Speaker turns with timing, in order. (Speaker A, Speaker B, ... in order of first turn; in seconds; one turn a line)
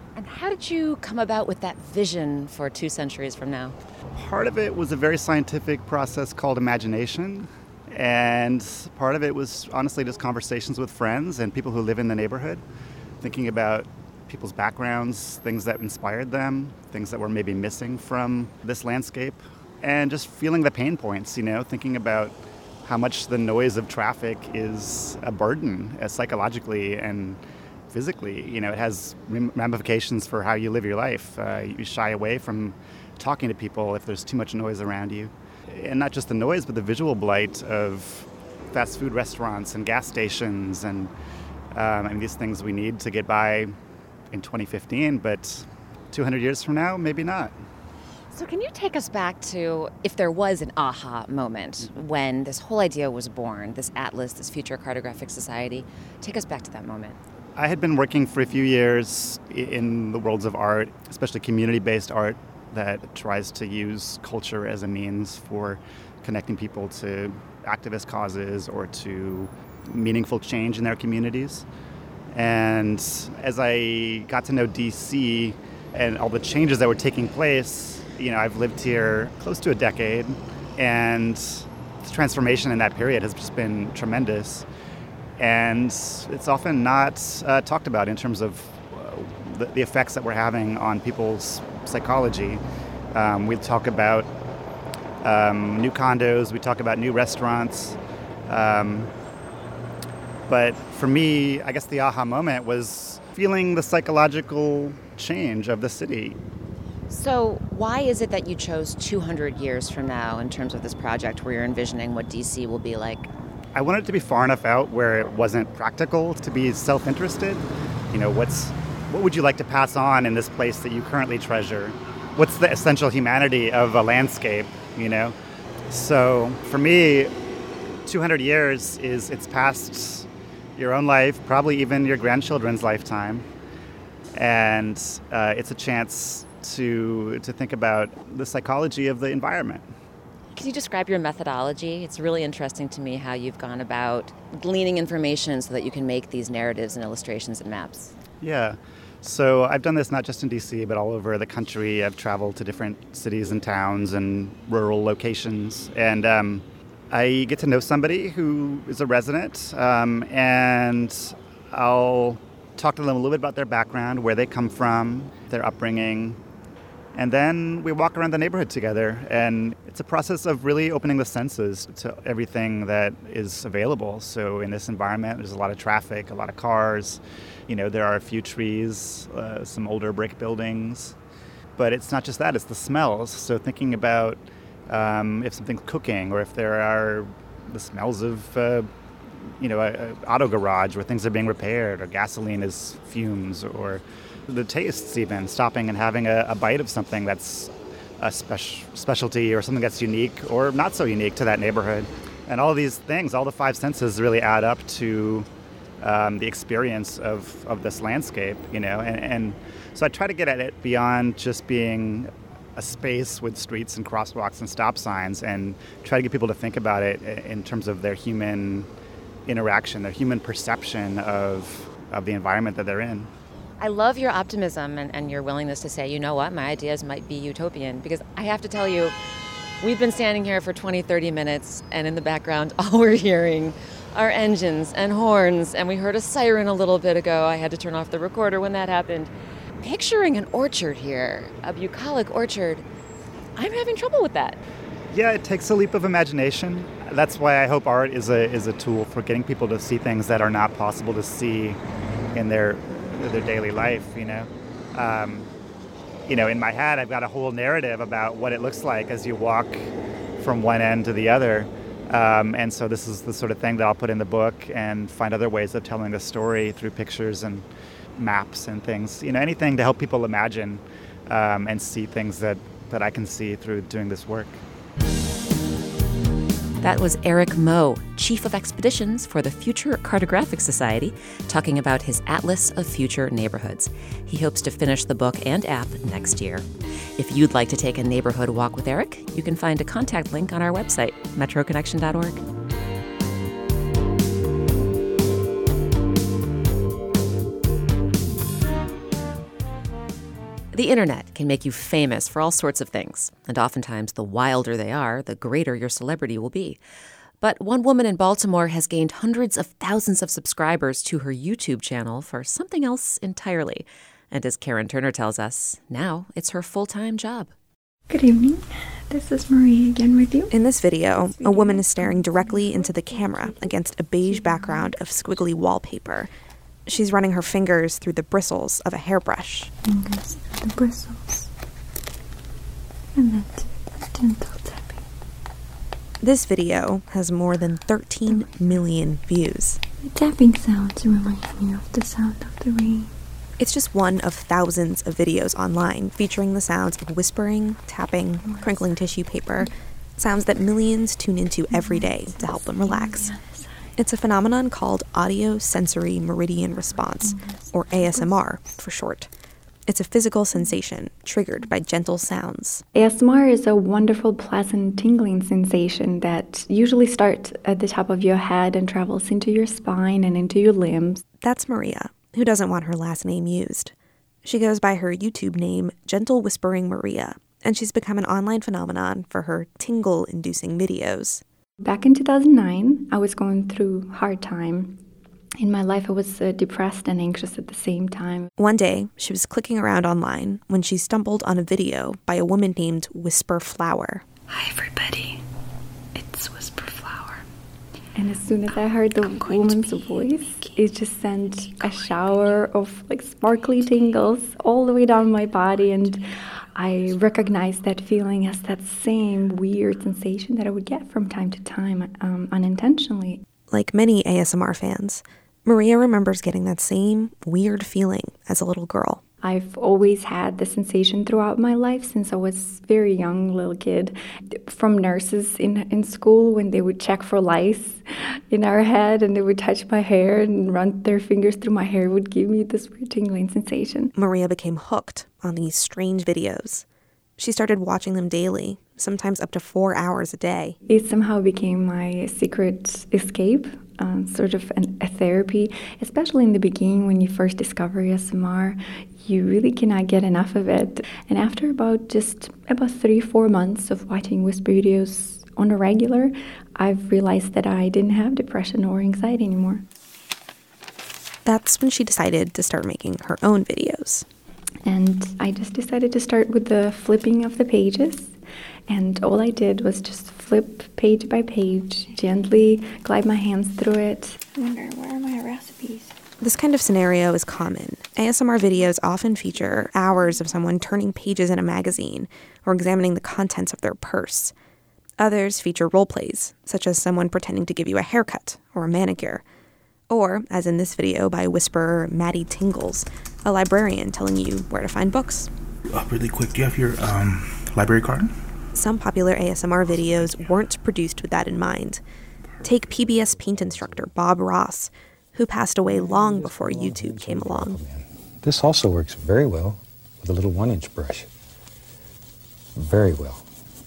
Speaker A: 0.2-3.8
Speaker B: 4.2-12.6
Speaker B: 13.2-27.4
Speaker B: 27.9-41.1
Speaker B: 41.7-43.8
Speaker B: 44.3-47.5
Speaker A: 48.3-57.2
Speaker B: 57.6-71.7
Speaker B: 72.3-84.7
Speaker B: 85.4-92.6
Speaker B: 93.1-94.3
Speaker B: 95.2-99.1
Speaker B: 100.5-106.4
Speaker A: 107.1-113.3
Speaker B: 113.8-125.4
Speaker B: 125.9-127.3
Speaker B: 128.1-133.5
Speaker B: 134.3-139.9
Speaker A: 140.6-148.1
Speaker B: 148.4-166.4
Speaker B: 167.2-181.2
Speaker B: 181.8-188.9
Speaker B: 189.6-205.5
Speaker B: 206.0-218.9
Speaker B: 219.5-223.3
Speaker A: 223.8-229.2
Speaker A: 229.8-239.3
Speaker A: 239.8-242.8
Speaker A: 243.6-244.6
Speaker B: 245.1-251.8
Speaker B: 252.3-255.5
Speaker B: 256.3-259.9
Speaker B: 260.4-274.6
Speaker A: 276.8-286.7
Speaker A: 287.2-292.4
Speaker A: 300.7-306.8
Speaker A: 307.4-317.5
Speaker C: 318.1-320.5
Speaker D: 320.5-326.3
Speaker C: 321.4-324.9
Speaker D: 326.9-329.7
Speaker C: 329.8-331.5
Speaker C: 333.2-335.0
Speaker D: 336.2-339.8
Speaker C: 338.3-338.7
Speaker C: 340.0-343.1
Speaker D: 343.6-353.3
Speaker C: 348.4-348.9
Speaker C: 351.7-353.9
Speaker D: 354.0-359.3
Speaker C: 357.2-358.8
Speaker D: 359.9-362.8
Speaker C: 362.9-371.4
Speaker D: 371.3-373.9
Speaker D: 374.4-381.4
Speaker C: 381.8-385.0
Speaker C: 385.6-388.5
Speaker D: 388.6-394.2
Speaker C: 394.5-395.4
Speaker C: 396.2-397.4
Speaker C: 398.1-413.5
Speaker D: 413.7-419.2
Speaker C: 419.4-434.1
Speaker D: 434.1-436.8
Speaker D: 437.4-440.8
Speaker C: 440.9-459.9
Speaker D: 461.4-464.3
Speaker C: 464.9-468.4
Speaker C: 468.9-476.2
Speaker D: 476.4-484.5
Speaker D: 485.2-489.4
Speaker D: 490.1-495.5
Speaker E: 495.9-498.3
Speaker D: 498.8-502.0
Speaker D: 502.6-507.8
Speaker F: 503.0-504.1
Speaker F: 506.0-511.3
Speaker F: 512.8-513.5